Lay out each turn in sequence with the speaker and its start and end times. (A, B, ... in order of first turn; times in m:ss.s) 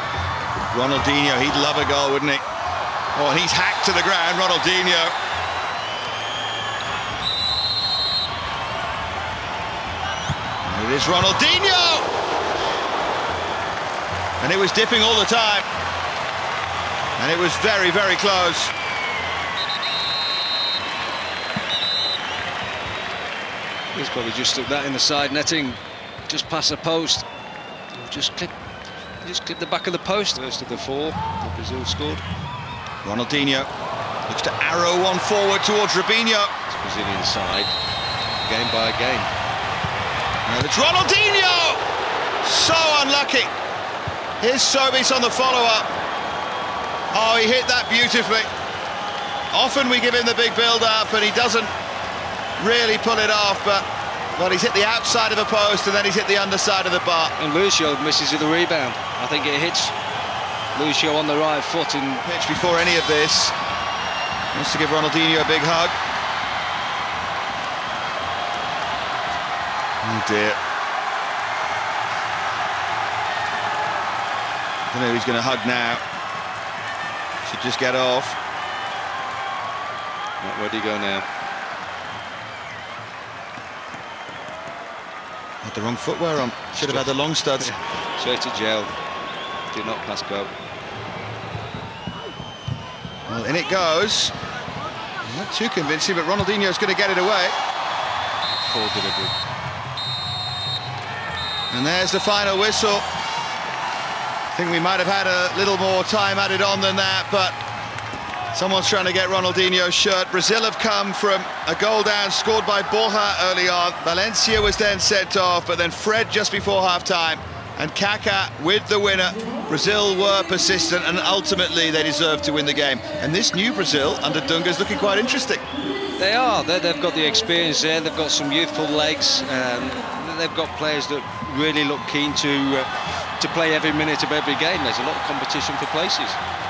0:00.7-0:02.4 A
0:03.1-0:05.1 A
0:10.6-0:12.1 A
0:14.4-0:15.6 A
0:17.2-0:18.7 A
0:23.9-0:27.3 B
0:27.9-0:28.5 B
0:29.2-0:32.2 B
0:33.0-0:33.7 A
0:34.3-0:36.5 A
0:36.7-0:37.7 B
0:38.2-0:39.3 B
0:40.4-0:41.8 A
0:42.4-0:43.5 A
0:44.4-0:45.9 A
0:47.1-0:48.5 A
0:49.5-0:51.7 A
0:52.6-0:57.3 A
0:57.4-0:59.9 B
1:00.7-1:02.2 B
1:02.2-1:03.5 A
1:04.5-1:06.0 A
1:10.0-1:10.6 A
1:14.8-1:16.0 A
1:17.4-1:18.4 A
1:20.4-1:21.3 B
1:25.6-1:27.7 A
1:26.7-1:28.9 B
1:29.7-1:30.5 B
1:33.3-1:34.3 A
1:35.2-1:37.6 A
1:38.6-1:39.3 B
1:41.7-1:43.0 A
1:44.5-1:47.6 A
1:48.5-2:05.6 A
2:06.2-2:16.4 B